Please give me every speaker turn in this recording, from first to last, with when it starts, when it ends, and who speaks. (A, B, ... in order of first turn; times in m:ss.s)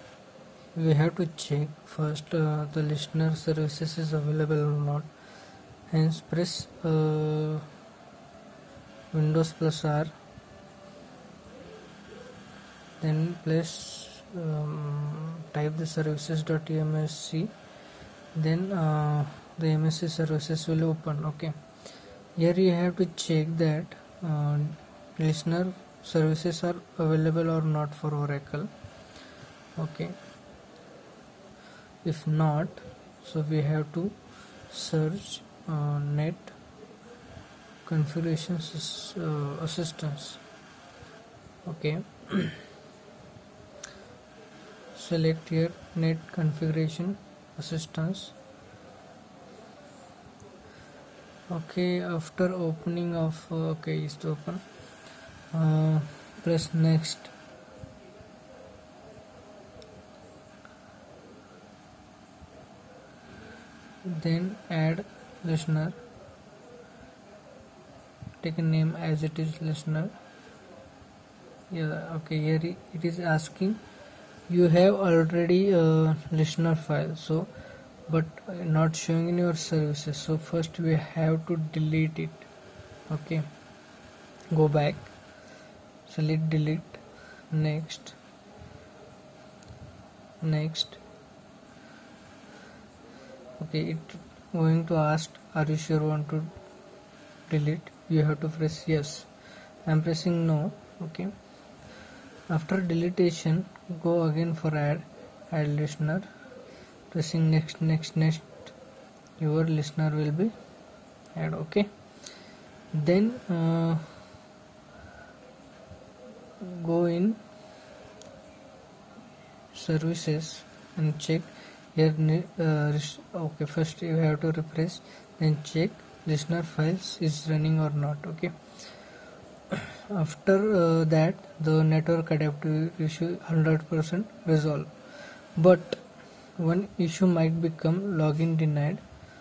0:00.7-0:05.1 A
0:05.9-0:07.7 A
0:09.1-0:10.1 A
0:13.0-0:17.5 A
0:18.4-0:21.6 A
0:22.4-0:28.7 A
0:29.8-0:30.2 A
0:32.0-0:34.2 A
0:34.7-0:36.6 A
0:37.8-0:40.4 A
0:41.6-0:42.6 A
0:44.9-0:48.3 A
0:51.5-0:54.6 A
0:55.5-0:57.3 A
1:04.0-1:06.0 A
1:08.4-1:10.1 A
1:11.7-1:13.8 A
1:14.5-1:17.5 A
1:18.1-1:22.5 A
1:23.1-1:23.5 A
1:24.5-1:25.1 A
1:26.1-1:28.2 A
1:30.4-1:31.0 A
1:33.6-1:36.5 A
1:37.5-1:39.3 A
1:39.8-1:41.3 A
1:42.5-1:46.3 A
1:47.1-1:48.7 A
1:49.4-1:50.5 A
1:51.3-1:51.9 A
1:52.9-1:54.2 A
1:56.6-1:57.4 A
1:59.7-2:08.5 A
2:09.7-2:14.9 A
2:15.6-2:16.0 A
2:16.6-2:19.0 A